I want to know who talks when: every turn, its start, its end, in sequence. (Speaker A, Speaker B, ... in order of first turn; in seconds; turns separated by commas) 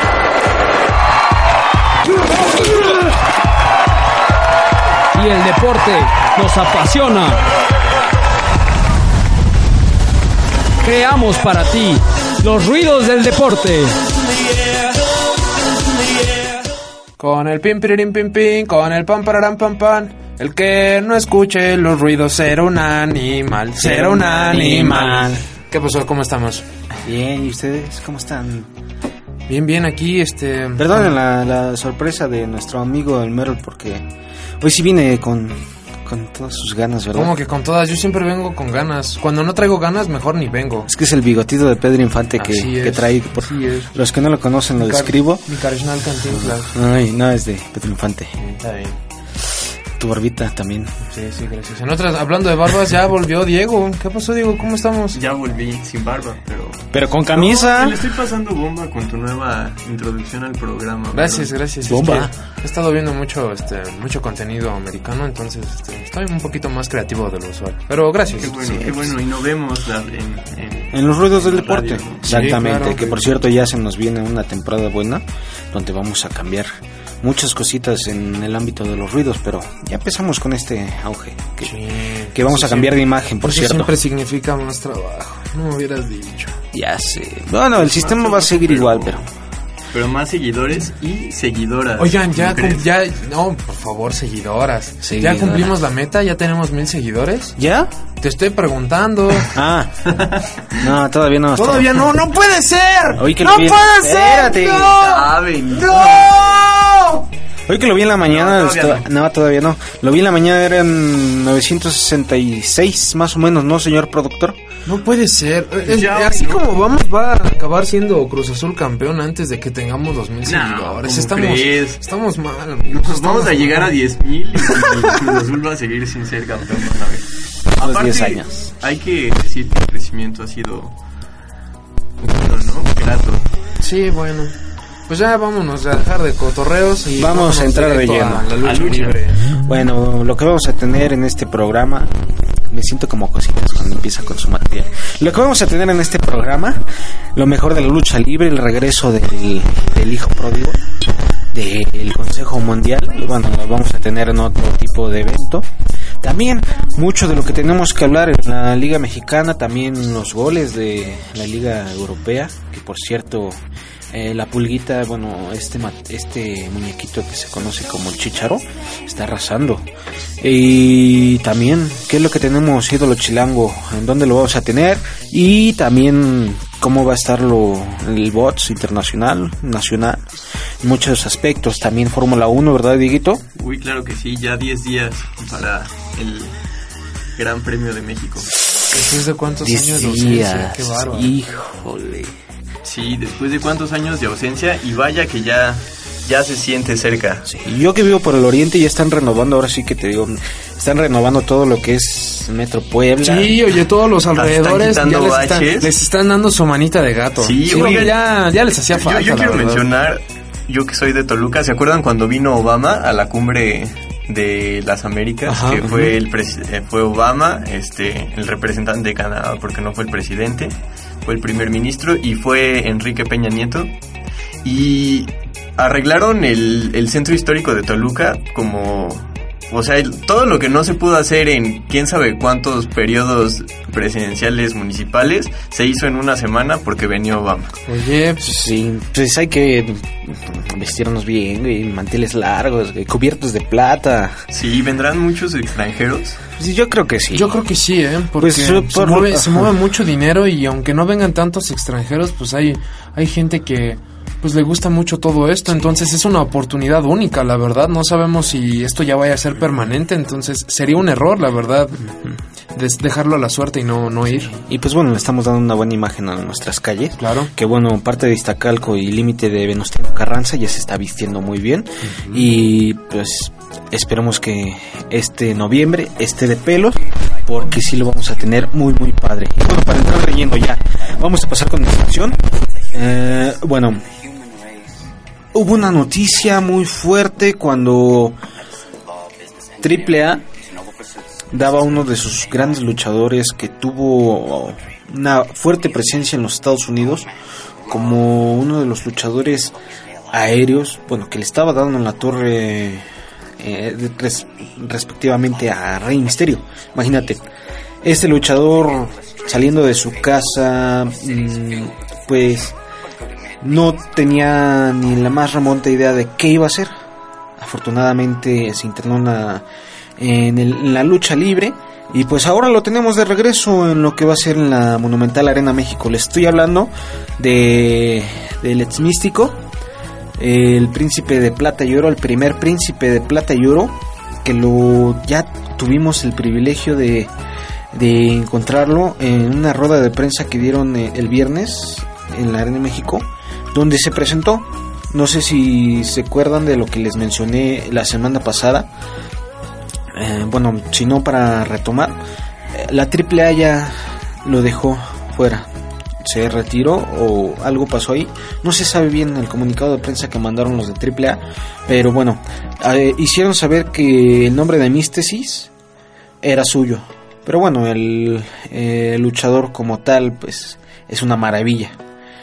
Speaker A: 2.4-3.0, Speaker A: 5.1-7.4, Speaker A: 10.8-14.0, Speaker B: 17.2-26.6, Speaker C: 23.7-25.4, Speaker C: 27.0-28.7, Speaker B: 29.5-31.1, Speaker C: 30.8-34.0, Speaker C: 34.6-37.3, Speaker B: 37.1-40.9, Speaker C: 40.9-45.4, Speaker B: 42.4-43.9, Speaker B: 44.8-46.7, Speaker C: 46.2-48.4, Speaker B: 48.4-49.0, Speaker C: 50.0-50.9, Speaker B: 51.1-55.2, Speaker D: 55.1-61.5, Speaker C: 56.9-58.1, Speaker B: 61.1-68.6, Speaker C: 61.8-62.3, Speaker D: 68.4-72.3, Speaker C: 68.6-69.1, Speaker C: 70.9-76.7, Speaker B: 72.3-73.4, Speaker C: 77.2-81.7, Speaker B: 81.6-86.6, Speaker C: 82.3-83.9, Speaker C: 86.7-89.2, Speaker D: 87.7-89.2, Speaker D: 89.9-92.8, Speaker B: 92.0-97.5, Speaker C: 95.0-95.7, Speaker C: 97.6-97.9, Speaker B: 98.2-99.5, Speaker C: 99.5-100.1, Speaker D: 100.0-100.8, Speaker C: 100.8-102.1, Speaker B: 101.5-107.2, Speaker C: 103.2-105.0, Speaker D: 105.0-106.6, Speaker C: 105.9-106.3, Speaker C: 107.7-114.6, Speaker D: 108.3-109.0, Speaker B: 114.8-123.9, Speaker D: 115.8-116.7, Speaker D: 120.5-122.0, Speaker D: 122.9-130.9, Speaker C: 127.8-128.7, Speaker D: 132.2-133.5, Speaker B: 133.8-134.5, Speaker B: 135.1-139.5, Speaker C: 137.1-138.6, Speaker D: 138.6-139.2, Speaker C: 139.6-142.1, Speaker C: 142.7-150.8, Speaker C: 151.5-155.7, Speaker C: 156.2-169.8, Speaker C: 170.4-180.2, Speaker C: 180.8-183.4, Speaker D: 183.6-186.5, Speaker D: 187.4-188.5, Speaker B: 188.9-191.3, Speaker C: 189.6-192.3, Speaker D: 192.8-197.5, Speaker C: 197.4-203.6, Speaker B: 203.2-209.8, Speaker D: 204.3-205.9, Speaker D: 207.4-208.2, Speaker D: 208.9-223.9, Speaker B: 215.4-215.9, Speaker C: 215.8-216.1, Speaker D: 224.6-237.7, Speaker B: 237.9-238.5, Speaker C: 238.4-244.4, Speaker D: 244.5-246.4, Speaker C: 246.6-247.6, Speaker B: 247.3-262.0, Speaker C: 248.4-249.7, Speaker B: 262.7-264.5, Speaker C: 264.5-284.1, Speaker B: 267.2-267.5, Speaker C: 285.5-288.4, Speaker C: 289.8-290.4, Speaker C: 291.5-297.3, Speaker C: 297.9-299.8, Speaker C: 300.3-303.0, Speaker C: 303.6-307.5, Speaker C: 308.0-312.8, Speaker C: 313.6-316.9, Speaker C: 317.6-319.6, Speaker C: 320.2-329.6, Speaker C: 330.4-337.3, Speaker C: 337.9-348.9, Speaker C: 350.1-352.2, Speaker C: 352.7-355.7, Speaker C: 356.2-365.7, Speaker C: 366.4-372.0